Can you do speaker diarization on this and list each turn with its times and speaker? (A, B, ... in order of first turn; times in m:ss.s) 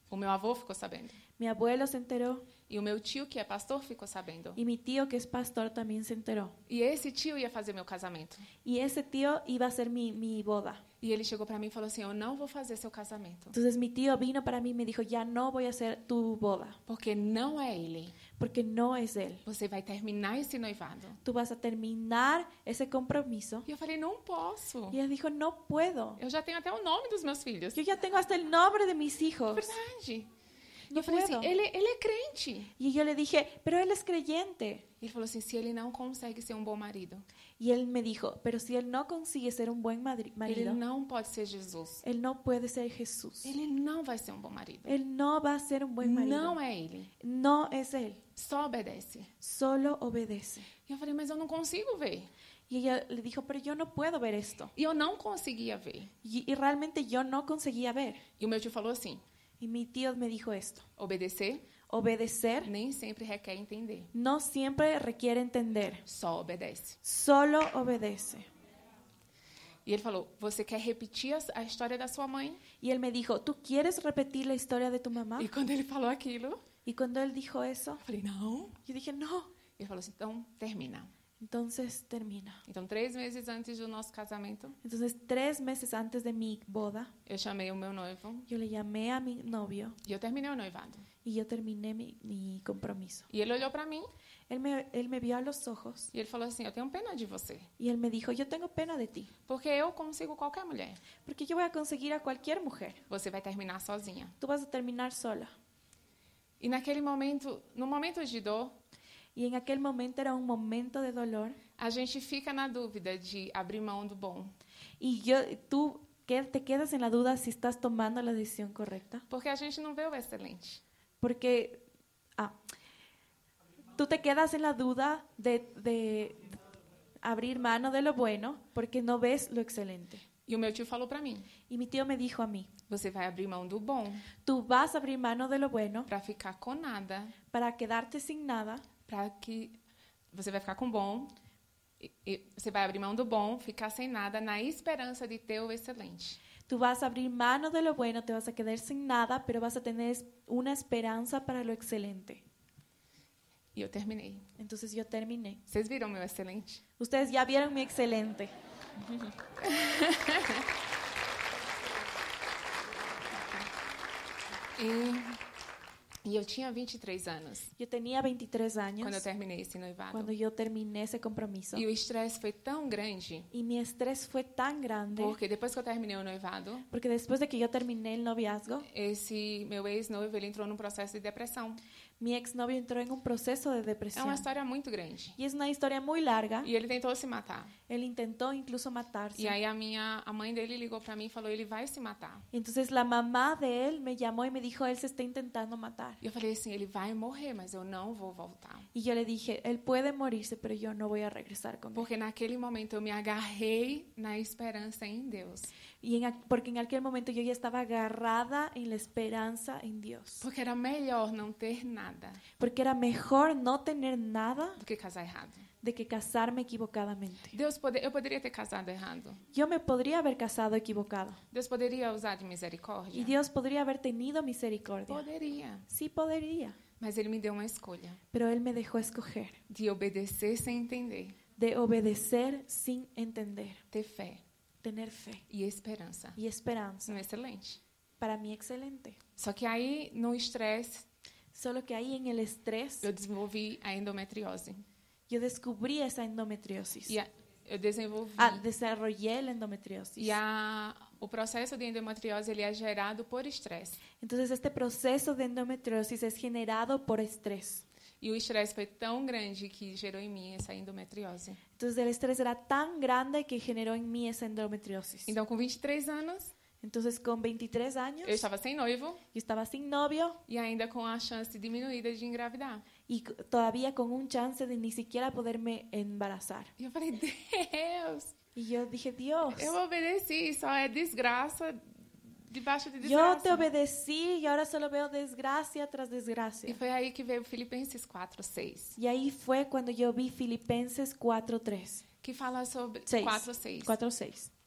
0:00.1-0:01.2 A
0:01.4-0:02.5 B
0:02.7-0:04.6 A
0:04.6-0:06.6 B
0:06.7-0:08.5 A
0:08.6-0:10.8 B
0:11.0-0:13.6 A
0:13.5-0:16.8 B
0:16.9-0:18.2 A
0:18.4-0:19.4 B
0:19.4-0:21.2 A
0:21.2-0:23.7 B
0:23.7-0:25.0 A
0:24.9-0:26.2 B
0:26.2-0:27.8 A
0:27.7-0:29.7 B
0:29.5-0:30.3 A
0:30.9-0:31.5 B
0:30.9-0:32.7 A
0:32.8-0:34.8 B
0:35.0-0:37.2 A
0:37.6-0:40.8 B
0:40.4-0:42.0 A
0:42.0-0:43.5 B
0:43.4-0:45.0 A
0:44.8-0:46.6 B
0:46.0-0:47.1 A
0:47.2-0:48.2 B
0:48.4-0:49.3 A
0:49.4-0:50.7 B
0:50.9-0:52.3 A
0:52.7-0:54.7 B
0:54.8-0:56.1 A
0:56.2-0:58.2 B
0:58.4-0:59.2 A
0:59.6-1:00.9 B
1:01.0-1:01.7 A
1:01.9-1:02.7 B
1:02.6-1:04.1 A
1:04.1-1:06.0 B
1:06.1-1:07.0 A
1:07.0-1:08.5 B
1:09.8-1:12.6 A
1:12.8-1:15.5 B
1:15.4-1:16.6 A
1:16.9-1:18.0 B
1:18.0-1:18.8 A
1:18.8-1:19.5 B
1:19.8-1:21.1 A
1:21.4-1:22.6 B
1:22.7-1:24.8 A
1:24.8-1:27.1 B
1:27.3-1:28.5 A
1:28.5-1:30.0 B
1:30.0-1:31.1 A
1:31.2-1:33.3 B
1:33.3-1:34.1 A
1:34.5-1:36.1 B
1:36.1-1:37.7 A
1:37.8-1:39.3 B
1:39.5-1:41.0 A
1:41.3-1:43.0 B
1:43.1-1:44.4 A
1:44.4-1:45.5 B
1:46.6-1:48.8 A
1:49.4-1:51.6 B
1:51.8-1:54.6 A
1:55.0-1:59.2 B
1:59.3-2:00.8 A
2:01.2-2:01.8 B
2:04.0-2:06.6 B
2:07.2-2:10.2 B
2:10.5-2:11.5 A
2:11.7-2:12.7 B
2:12.9-2:14.3 A
2:14.4-2:16.1 B
2:16.1-2:17.4 A
2:17.5-2:18.8 B
2:19.1-2:19.8 A
2:20.3-2:21.4 A
2:22.0-2:26.4 A
2:26.7-2:32.4 B
2:33.7-2:34.5 A
2:34.6-2:35.6 B
2:35.7-2:36.8 A
2:37.0-2:39.4 B
2:39.6-2:40.7 A
2:43.3-2:43.7 A
2:44.8-2:45.4 A
2:46.2-2:47.7 A
2:47.8-2:49.3 B
2:49.0-2:50.3 A
2:50.1-2:51.9 B
2:51.7-2:53.5 A
2:53.5-2:55.4 B
2:55.1-2:56.9 A
2:56.9-2:58.9 B
2:58.9-3:01.8 A
3:02.2-3:04.5 B
3:04.1-3:05.4 A
3:05.4-3:06.7 B
3:06.6-3:07.7 A
3:07.9-3:09.6 B
3:09.4-3:12.5 A
3:12.5-3:16.2 B
3:16.2-3:18.9 A
3:18.9-3:22.1 B
3:22.0-3:25.7 A
3:26.0-3:30.4 B
3:30.4-3:32.4 A
3:32.6-3:34.8 B
3:34.8-3:35.7 A
3:35.8-3:37.6 B
3:37.5-3:39.4 A
3:39.5-3:41.4 B
3:41.5-3:43.3 A
3:43.1-3:45.3 B
3:45.1-3:45.9 A
3:45.9-3:46.8 B
3:47.0-3:48.2 A
3:48.3-3:49.6 B
3:49.7-3:51.4 A
3:51.6-3:53.8 B
3:53.9-3:54.4 A
3:54.8-3:55.4 B
3:55.5-3:56.4 A
3:56.4-3:57.2 B
3:57.1-3:57.8 A
3:58.2-3:59.2 B
3:59.4-4:01.1 A
4:01.5-4:03.1 B
4:03.0-4:04.8 A
4:05.3-4:07.2 B
4:07.1-4:08.6 A
4:08.4-4:10.4 B
4:10.2-4:14.0 A
4:14.2-4:17.8 B
4:18.2-4:21.6 A
4:21.8-4:25.4 B
4:25.3-4:26.5 A
4:26.8-4:28.5 B
4:28.2-4:29.2 A
4:29.3-4:30.4 B
4:30.5-4:32.8 A
4:33.1-4:36.7 B
4:36.8-4:38.3 A
4:38.6-4:39.8 B
4:39.5-4:43.7 A
4:43.0-4:46.8 B
4:46.7-4:49.0 A
4:49.0-4:52.0 B
4:52.2-4:54.0 A
4:53.1-4:54.5 B